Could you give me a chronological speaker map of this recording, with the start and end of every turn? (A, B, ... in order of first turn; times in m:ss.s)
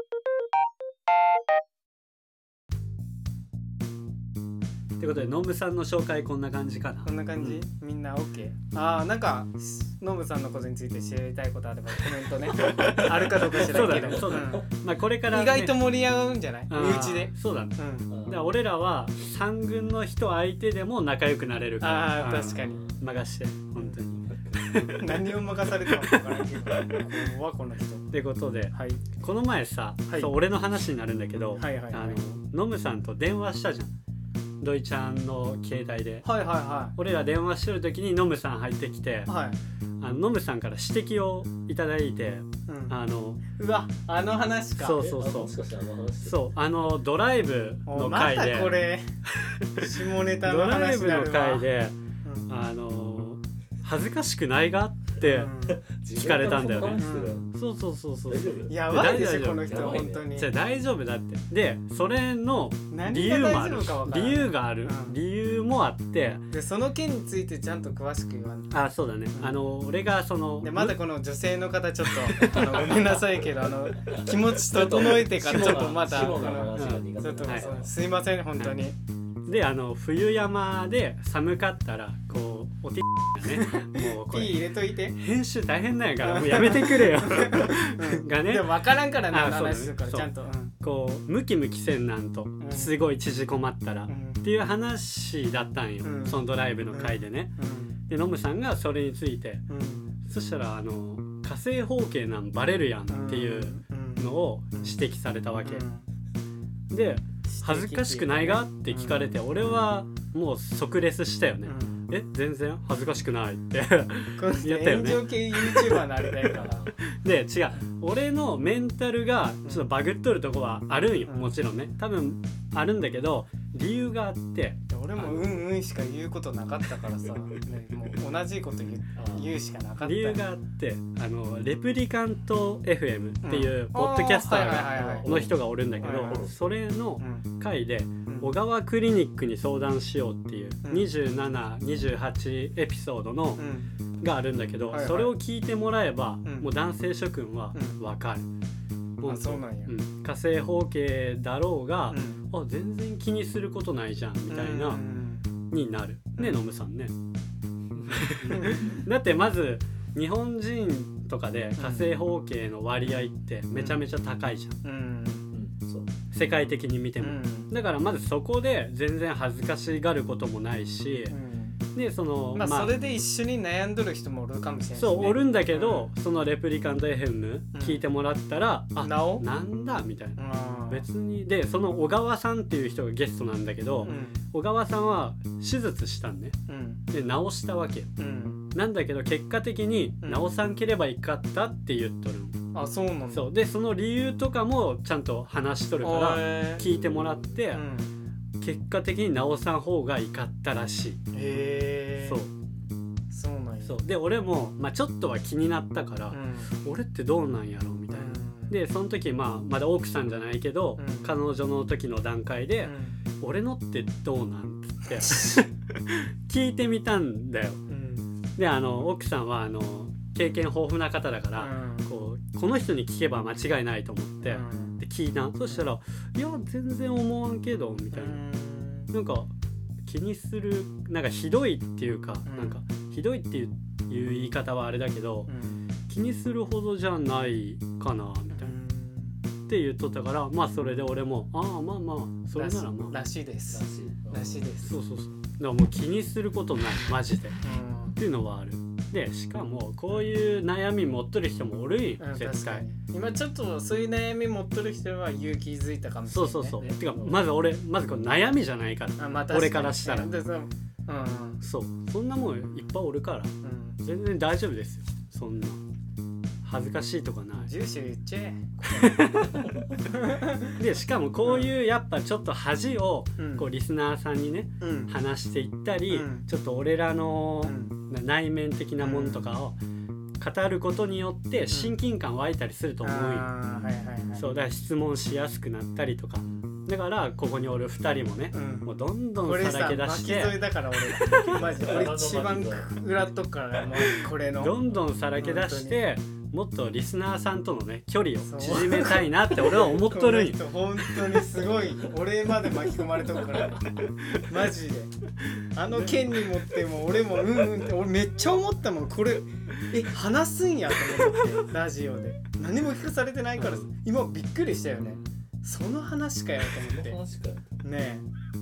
0:05.0-0:07.6 A
0:07.0-0:14.7 B
0:12.6-0:15.8 A
0:12.7-0:14.6 C
0:15.3-0:18.1 B
0:16.7-0:25.3 A
0:18.1-0:18.5 C
0:21.8-0:22.9 B
0:22.6-0:23.0 C
0:24.2-0:24.8 C
0:24.9-0:28.1 B
0:25.8-0:27.1 A
0:28.1-0:33.9 A
0:28.7-0:29.0 B
0:30.1-0:30.3 B
0:31.6-0:32.2 B
0:34.6-0:36.2 A
0:36.2-0:36.9 B
0:37.0-0:39.3 A
0:39.3-0:39.6 B
0:40.0-0:43.4 A
0:42.7-0:43.0 B
0:43.5-0:45.0 B
0:44.8-0:45.5 A
0:45.0-0:46.5 C
0:46.2-0:48.8 A
0:47.9-0:49.1 B
0:49.3-0:52.0 A
0:49.8-0:51.6 B
0:52.2-0:52.5 B
0:52.5-0:55.5 A
0:55.2-0:55.8 B
0:55.6-0:57.5 C
0:56.1-1:06.4 A
0:57.0-0:57.4 B
0:58.3-0:58.8 C
0:58.7-1:00.5 B
0:59.6-1:00.3 C
1:02.9-1:05.2 B
1:06.5-1:08.7 B
1:08.7-1:11.0 A
1:09.3-1:09.6 B
1:10.6-1:19.0 B
1:12.4-1:17.9 C
1:15.5-1:17.7 A
1:19.4-1:24.6 A
1:23.4-1:25.2 B
1:25.1-1:37.6 A
1:26.2-1:30.7 B
1:32.6-1:32.9 B
1:34.1-1:34.4 B
1:36.0-1:38.0 B
1:38.1-1:39.6 A
1:39.7-1:40.1 B
1:40.2-1:45.8 A
1:43.1-1:45.0 B
1:45.6-1:46.1 B
1:46.9-1:56.5 A
1:47.4-1:49.4 B
1:51.6-1:52.0 B
1:54.4-1:56.8 B
1:56.5-1:56.9 C
1:57.1-2:05.5 A
2:01.2-2:01.6 B
2:04.9-2:10.4 B
2:09.2-2:09.5 C
2:10.0-2:23.7 A
2:13.4-2:15.3 B
2:15.2-2:16.7 C
2:16.0-2:16.5 B
2:17.2-2:17.4 B
2:18.2-2:18.5 B
2:20.8-2:21.1 B
2:23.6-2:23.9 B
2:24.2-2:28.5 A
2:24.9-2:25.4 B
2:26.4-2:26.7 B
2:27.7-2:28.0 B
2:29.2-2:35.0 A
2:29.2-2:29.9 B
2:32.1-2:32.4 B
2:34.5-2:35.5 B
2:35.7-2:37.1 A
2:37.9-2:39.0 C
2:38.1-2:44.8 A
2:38.5-2:38.9 B
2:41.8-2:42.1 B
2:43.7-2:44.0 B
2:44.8-2:45.5 B
2:45.5-2:46.1 C
2:46.3-2:51.4 A
2:47.2-2:47.7 B
2:51.3-2:51.8 B
2:51.9-2:52.9 A
2:52.5-2:56.1 B
2:55.0-3:06.6 A
2:57.7-2:58.0 B
2:59.0-2:59.4 B
3:00.4-3:01.0 B
3:04.0-3:04.4 B
3:06.7-3:07.0 B
3:07.1-3:08.1 A
3:08.2-3:08.7 B
3:08.7-3:12.6 A
3:10.2-3:10.5 B
3:12.7-3:13.5 B
3:13.3-3:17.8 A
3:16.0-3:16.8 B
3:16.8-3:17.6 C
3:17.7-3:18.1 B
3:18.6-3:21.2 A
3:21.3-3:22.4 B
3:22.2-3:22.5 A
3:23.3-3:24.0 B
3:23.8-3:37.8 A
3:26.3-3:26.7 B
3:28.1-3:28.8 B
3:31.0-3:31.3 B
3:32.8-3:33.2 B
3:37.9-3:38.3 B
3:38.6-3:48.4 A
3:41.6-3:42.1 B
3:44.4-3:45.0 B
3:48.1-3:49.1 B
3:49.1-3:49.5 A
3:50.0-3:55.5 A
3:52.4-3:52.8 B
3:55.5-3:55.8 B
3:56.1-3:58.8 A
3:58.5-3:59.4 B
3:59.7-4:03.2 A
4:02.5-4:05.0 B
4:03.7-4:04.7 C
4:04.8-4:07.6 A
4:07.6-4:08.2 B
4:08.2-4:12.8 A
4:12.2-4:16.8 B
4:16.3-4:20.3 A
4:16.8-4:17.5 C
4:19.2-4:21.6 B
4:21.6-4:25.8 A
4:23.6-4:24.0 B
4:26.6-4:27.7 A
4:27.6-4:29.4 B
4:28.9-4:29.6 A
4:30.1-4:30.8 B
4:30.8-4:39.8 A
4:31.4-4:31.7 B
4:33.4-4:33.7 B
4:34.8-4:35.1 B
4:36.1-4:36.4 B
4:37.6-4:38.0 B
4:39.0-4:39.5 B
4:40.4-4:43.5 A
4:41.7-4:42.0 B
4:43.0-4:44.5 B
4:43.7-4:44.5 C
4:44.4-4:50.6 A
4:46.4-4:46.8 C
4:48.5-4:54.8 B
4:51.2-4:51.6 A
4:51.3-4:53.0 C
4:54.6-5:00.6 A
4:55.4-4:56.0 B
4:58.4-5:03.9 B
5:04.4-5:05.1 B
5:05.7-5:17.2 B
5:13.6-5:13.8 A
5:15.0-5:15.2 C
5:16.7-5:17.8 C
5:17.8-5:18.2 B